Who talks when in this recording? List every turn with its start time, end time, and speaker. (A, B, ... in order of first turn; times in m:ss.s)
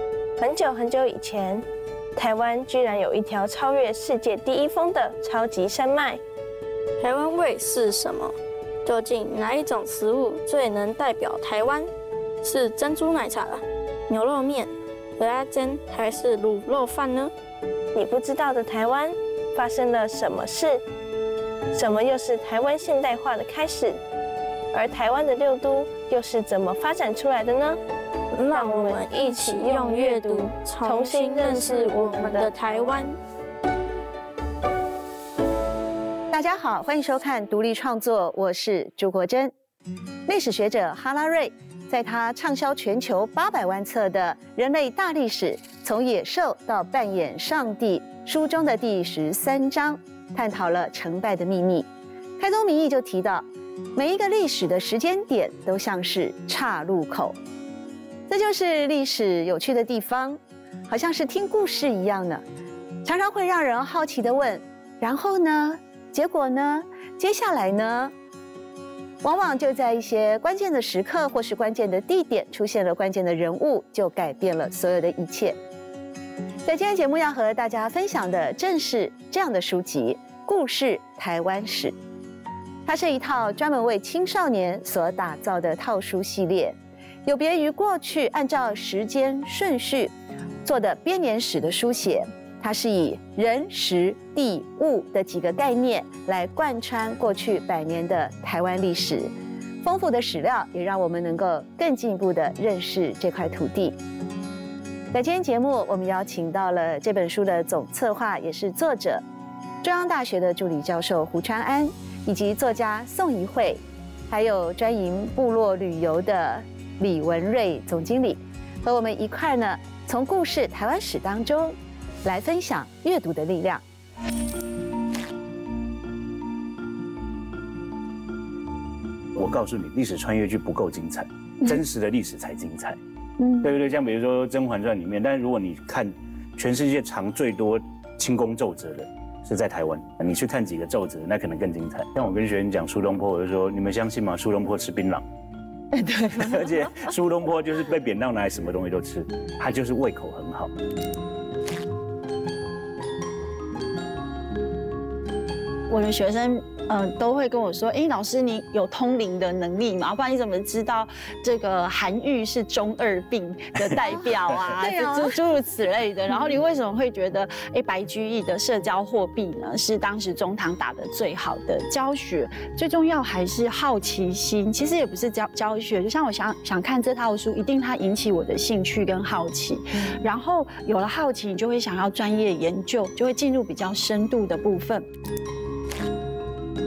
0:00.4-0:06.2 A
0:07.0-0:11.9 B
0:12.4-0:17.3 B
0:17.9-0:20.8 A
0:21.7-0:24.0 A
0:24.7-0:27.8 A
0:28.3-0:33.1 B
0:28.5-0:33.0 A
0:36.3-0:39.5 C
0:40.3-0:57.4 C
0:58.3-1:02.4 C
1:03.0-1:08.1 C
1:09.2-1:15.6 C
1:16.6-1:22.0 C
1:22.8-1:30.1 C
1:30.6-1:39.3 C
1:39.8-1:44.0 C
1:45.1-1:49.2 C
1:49.8-2:03.8 C
2:09.3-2:13.0 D
2:13.4-2:13.7 E
2:13.6-2:25.2 D
2:26.0-2:26.6 C
2:26.3-2:30.7 D
2:35.9-3:05.0 E
2:44.8-2:45.3 C